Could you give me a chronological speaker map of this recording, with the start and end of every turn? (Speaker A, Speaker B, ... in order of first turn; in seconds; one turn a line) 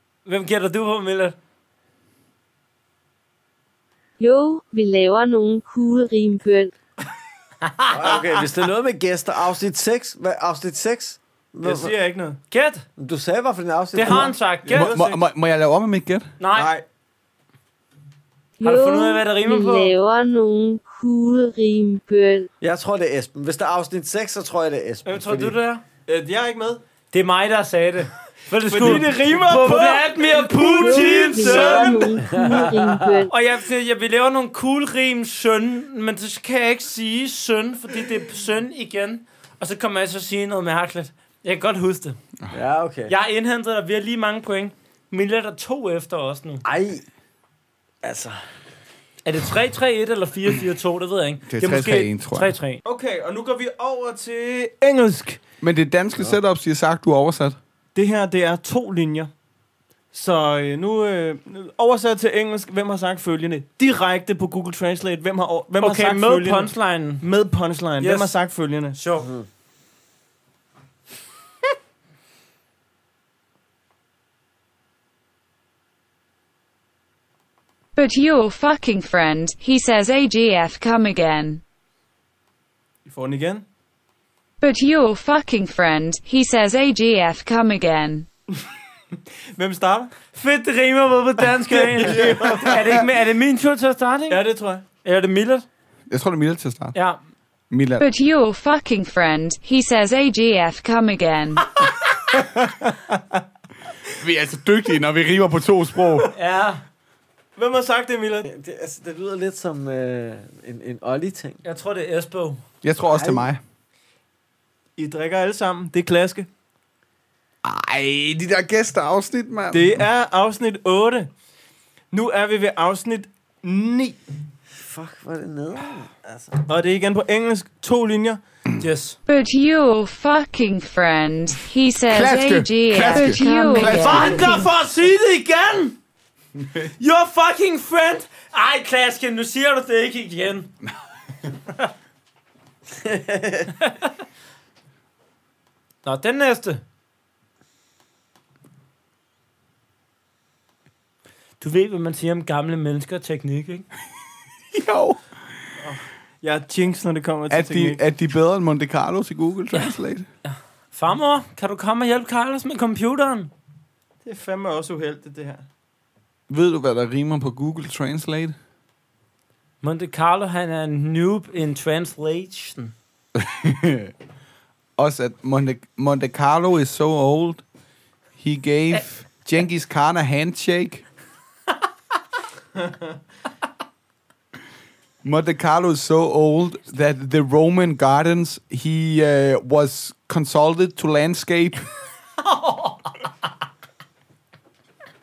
Speaker A: 0.2-1.4
Speaker B: 4.2-6.7
Speaker C: 7.9-11.9
Speaker D: 11.6-12.4
Speaker A: 12.5-12.8
Speaker C: 13.0-14.4
Speaker A: 13.9-14.9
Speaker D: 14.1-15.2
Speaker E: 14.7-16.3
Speaker A: 16.4-16.7
Speaker D: 16.5-16.8
Speaker B: 18.6-22.5
Speaker A: 18.6-19.9
Speaker C: 22.6-25.6
Speaker A: 25.0-25.8
Speaker D: 26.1-26.8
Speaker A: 27.1-32.4
Speaker D: 28.7-32.6
Speaker B: 30.6-33.3
Speaker C: 32.2-33.2
Speaker A: 33.3-42.2
Speaker C: 42.5-43.1
Speaker A: 43.1-46.6
Speaker C: 46.6-47.0
Speaker C: 48.0-48.4
Speaker A: 49.2-52.8
Speaker E: 51.5-52.5
Speaker D: 52.8-55.4
Speaker E: 55.6-57.6
Speaker D: 57.9-59.3
Speaker D: 60.1-69.0
Speaker A: 65.8-67.2
Speaker A: 68.0-68.3
Speaker A: 68.9-69.3
Speaker F: 78.0-81.6
Speaker D: 83.0-83.6
Speaker F: 84.6-88.3
Speaker D: 89.5-90.1
Speaker A: 90.3-94.4
Speaker D: 91.7-93.0
Speaker D: 94.3-94.8
Speaker A: 95.0-95.6
Speaker E: 96.1-97.0
Speaker A: 96.9-97.2
Speaker E: 97.7-98.0
Speaker F: 98.0-101.7
Speaker E: 104.1-106.3
Speaker A: 106.3-106.8
Speaker D: 107.5-108.5
Speaker C: 108.5-111.6
Speaker A: 111.6-112.6
Speaker E: 112.8-113.6
Speaker C: 113.1-113.5
Speaker D: 115.0-116.5
Speaker E: 117.6-119.9
Speaker D: 119.7-121.3
Speaker D: 122.1-124.2
Speaker C: 124.8-126.5
Speaker D: 126.7-128.4
Speaker A: 128.8-129.2
Speaker F: 129.3-134.7
Speaker E: 132.1-134.6
Speaker A: 133.1-135.9
Speaker E: 136.6-136.9
Speaker A: 137.0-140.7
Speaker C: 143.0-143.7
Speaker A: 143.8-144.1
Speaker A: 146.0-146.8
Speaker A: 151.6-153.8
Speaker E: 154.7-155.2
Speaker D: 155.8-158.0
Speaker E: 157.5-160.3
Speaker A: 159.7-163.5
Speaker D: 164.2-165.6
Speaker E: 166.5-168.5
Speaker A: 169.8-172.9
Speaker E: 173.3-174.1
Speaker E: 175.0-177.6
Speaker E: 178.4-181.0
Speaker E: 185.2-191.9
Speaker A: 192.4-193.1